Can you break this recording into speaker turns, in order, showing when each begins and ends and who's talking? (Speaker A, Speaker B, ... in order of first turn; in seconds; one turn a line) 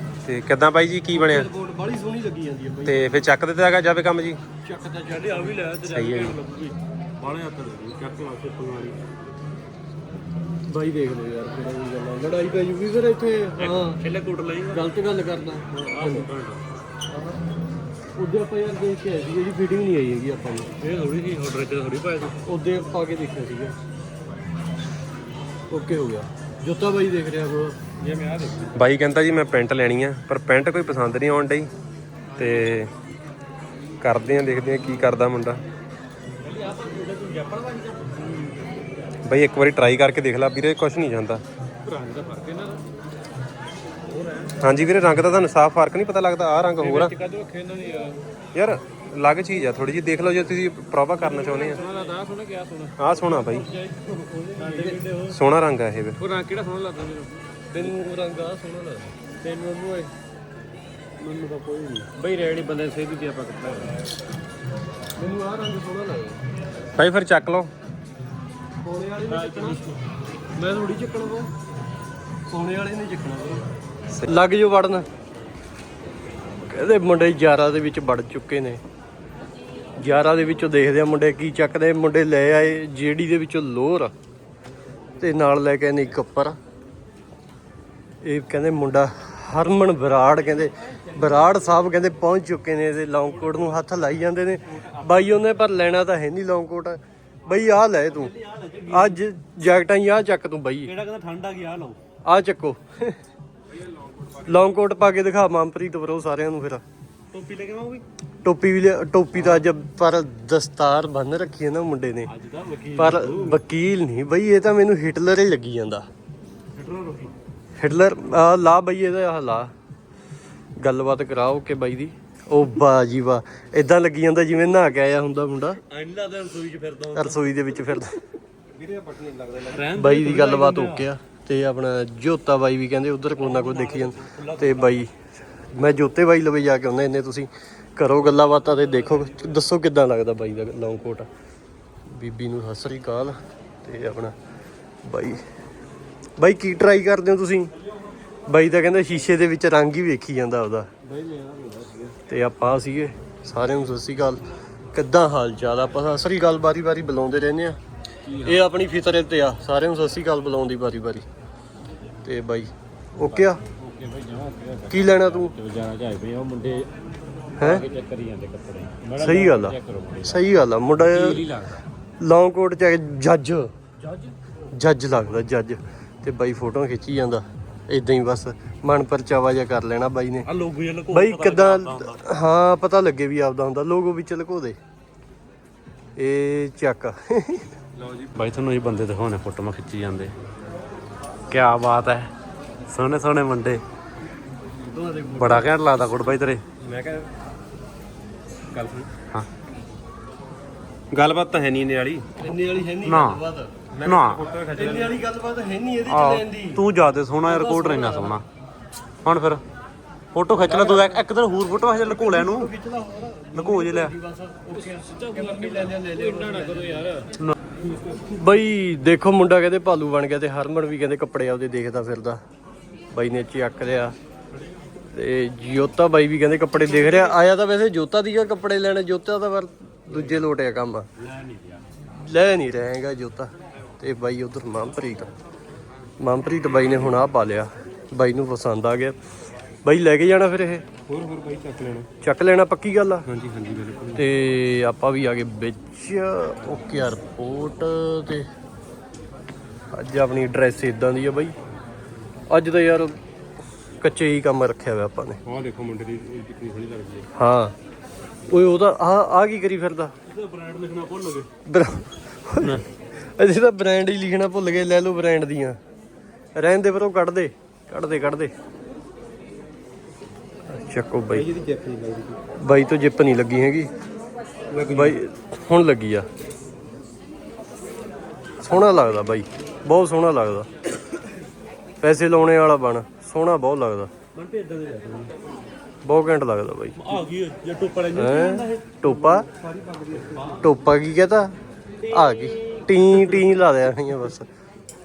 Speaker A: 0.2-1.5
Speaker B: 1.1-3.2
Speaker A: 2.9-4.4
Speaker B: 4.6-5.7
Speaker C: 5.1-9.0
Speaker A: 5.8-6.4
Speaker B: 10.7-14.0
Speaker D: 13.6-14.8
Speaker B: 14.7-16.3
Speaker C: 15.8-16.6
Speaker B: 17.1-17.4
Speaker B: 18.2-20.7
Speaker C: 20.8-22.3
Speaker D: 21.1-22.3
Speaker B: 22.5-23.8
Speaker B: 25.7-27.8
Speaker D: 28.0-28.8
Speaker A: 28.8-31.7
Speaker A: 32.4-32.9
Speaker A: 34.0-35.6
Speaker D: 36.4-38.6
Speaker A: 39.3-41.4
Speaker D: 41.8-42.8
Speaker D: 44.1-44.5
Speaker A: 44.6-47.1
Speaker D: 46.8-48.2
Speaker A: 48.5-51.8
Speaker D: 51.4-53.5
Speaker C: 51.5-51.8
Speaker A: 53.0-53.7
Speaker B: 53.8-55.3
Speaker C: 54.6-55.3
Speaker D: 54.7-55.0
Speaker A: 55.3-56.2
Speaker D: 56.2-57.9
Speaker B: 57.7-59.1
Speaker D: 59.4-60.1
Speaker C: 61.2-62.1
Speaker D: 62.1-64.0
Speaker B: 65.2-66.4
Speaker A: 67.0-67.7
Speaker B: 68.8-69.8
Speaker B: 70.6-71.5
Speaker B: 72.5-73.7
Speaker B: 74.2-75.1
Speaker B: 76.7-78.8
Speaker B: 80.0-84.1
Speaker B: 85.2-86.6
Speaker B: 88.2-98.3
Speaker C: 91.1-91.5
Speaker C: 94.6-95.5
Speaker C: 98.1-99.2
Speaker B: 98.9-100.9
Speaker C: 100.8-102.0
Speaker B: 102.2-103.2
Speaker A: 103.7-104.6
Speaker B: 104.5-106.8
Speaker C: 107.3-108.0
Speaker B: 108.4-112.3
Speaker C: 109.4-109.6
Speaker C: 112.3-113.6
Speaker B: 113.0-116.1
Speaker C: 116.8-117.3
Speaker B: 117.8-119.7
Speaker B: 120.8-125.8
Speaker C: 125.8-127.6
Speaker B: 127.2-128.2
Speaker A: 128.7-129.9
Speaker C: 129.7-131.1
Speaker B: 130.0-135.1
Speaker C: 133.4-135.1
Speaker B: 135.7-141.3
Speaker B: 142.1-144.3
Speaker B: 145.0-145.4
Speaker B: 146.4-147.7
Speaker B: 148.5-150.9
Speaker D: 151.0-152.2
Speaker B: 152.3-157.8
Speaker D: 158.2-158.7
Speaker B: 158.4-161.3
Speaker B: 162.2-163.6
Speaker D: 163.7-166.9
Speaker B: 164.9-165.5
Speaker D: 167.6-170.4
Speaker B: 167.6-167.8
Speaker B: 169.2-171.5
Speaker D: 171.0-171.8
Speaker B: 172.2-173.7
Speaker D: 174.0-174.3
Speaker B: 174.7-180.5
Speaker C: 180.5-182.2
Speaker B: 181.1-184.8
Speaker B: 186.2-187.7
Speaker A: 188.0-188.3
Speaker C: 188.3-190.3
Speaker C: 191.5-192.3
Speaker C: 192.9-193.8
Speaker B: 194.9-195.8
Speaker C: 195.4-196.7
Speaker A: 196.8-197.3
Speaker A: 198.7-199.3
Speaker A: 201.1-202.3
Speaker B: 202.4-203.8
Speaker C: 203.1-203.4
Speaker A: 203.9-205.2
Speaker C: 204.0-204.4
Speaker B: 204.7-206.9
Speaker C: 206.1-208.4
Speaker B: 207.4-208.4
Speaker C: 209.2-209.6
Speaker C: 210.3-212.7
Speaker B: 210.6-211.2
Speaker B: 212.1-217.1
Speaker C: 213.5-214.2
Speaker D: 214.7-217.3
Speaker B: 218.1-222.4
Speaker B: 223.1-224.2
Speaker B: 225.1-231.1
Speaker D: 231.2-231.8
Speaker B: 232.0-235.3
Speaker B: 236.2-239.2
Speaker B: 239.8-240.9
Speaker A: 241.1-242.1
Speaker B: 242.2-243.3
Speaker A: 243.3-244.2
Speaker B: 244.2-248.5
Speaker B: 249.9-251.6
Speaker B: 252.5-253.2
Speaker B: 254.0-255.4
Speaker A: 255.4-257.3
Speaker B: 257.4-257.8
Speaker B: 258.5-260.1
Speaker C: 260.2-261.5
Speaker B: 261.7-265.8
Speaker B: 266.6-268.5
Speaker B: 270.7-271.5
Speaker A: 271.3-272.4
Speaker B: 272.6-273.9
Speaker A: 274.7-275.2
Speaker B: 274.9-276.3
Speaker B: 278.6-280.7
Speaker B: 282.0-284.1
Speaker C: 284.4-285.3
Speaker B: 286.1-287.3
Speaker C: 287.0-290.7
Speaker B: 288.1-289.5
Speaker B: 290.6-291.5
Speaker C: 292.0-293.5
Speaker B: 292.1-294.5